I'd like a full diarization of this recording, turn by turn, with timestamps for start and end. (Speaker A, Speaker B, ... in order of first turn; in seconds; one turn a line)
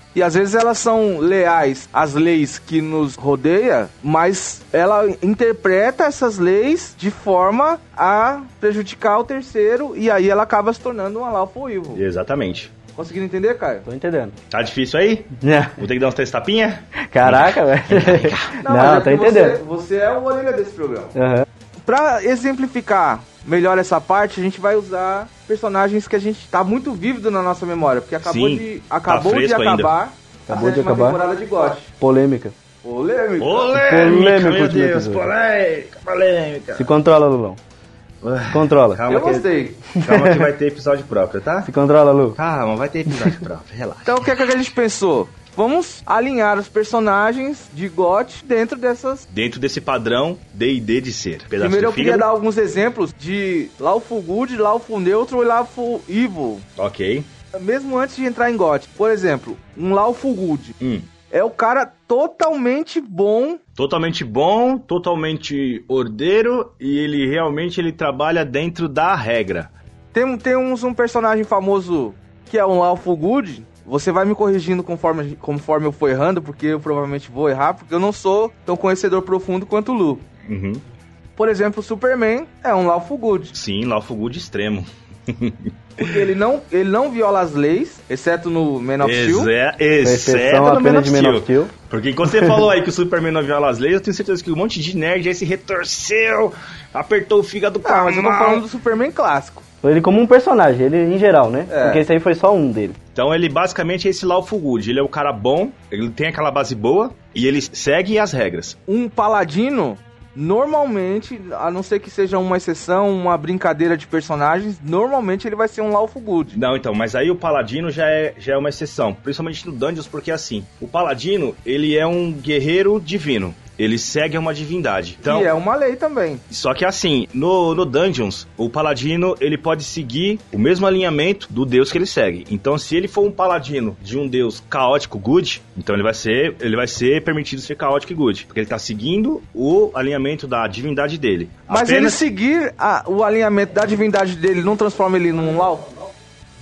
Speaker A: 0.1-12.0
Speaker B: 11.9-12.7
Speaker A: 12.9-13.8
Speaker C: 13.8-14.3
Speaker B: 14.5-18.6
Speaker C: 15.4-15.8
Speaker C: 17.0-19.6
Speaker A: 18.6-21.1
Speaker C: 21.1-21.5
Speaker A: 21.9-31.9
Speaker B: 28.2-29.9
Speaker C: 30.5-31.2
Speaker C: 32.0-32.5
Speaker A: 32.8-33.7
Speaker B: 33.4-36.9
Speaker C: 33.7-35.3
Speaker C: 36.7-37.6
Speaker B: 38.2-41.7
Speaker C: 38.5-39.0
Speaker A: 39.1-39.8
Speaker C: 40.0-40.5
Speaker C: 41.6-42.4
Speaker B: 42.3-44.3
Speaker C: 43.1-43.4
Speaker A: 44.0-49.2
Speaker B: 49.3-52.3
Speaker A: 51.6-56.6
Speaker B: 56.8-57.3
Speaker A: 57.5-60.7
Speaker B: 60.8-61.1
Speaker A: 61.3-63.6
Speaker B: 63.8-69.7
Speaker A: 70.1-80.2
Speaker B: 80.5-80.8
Speaker A: 81.4-83.5
Speaker B: 83.5-86.2
Speaker A: 86.0-89.5
Speaker B: 89.0-98.6
Speaker C: 90.0-91.7
Speaker C: 92.2-92.6
Speaker A: 97.8-99.6
Speaker C: 99.8-103.0
Speaker A: 101.7-102.0
Speaker B: 103.1-108.8
Speaker A: 108.9-116.6
Speaker B: 116.5-125.5
Speaker A: 125.2-126.4
Speaker B: 126.5-142.2
Speaker A: 141.7-145.9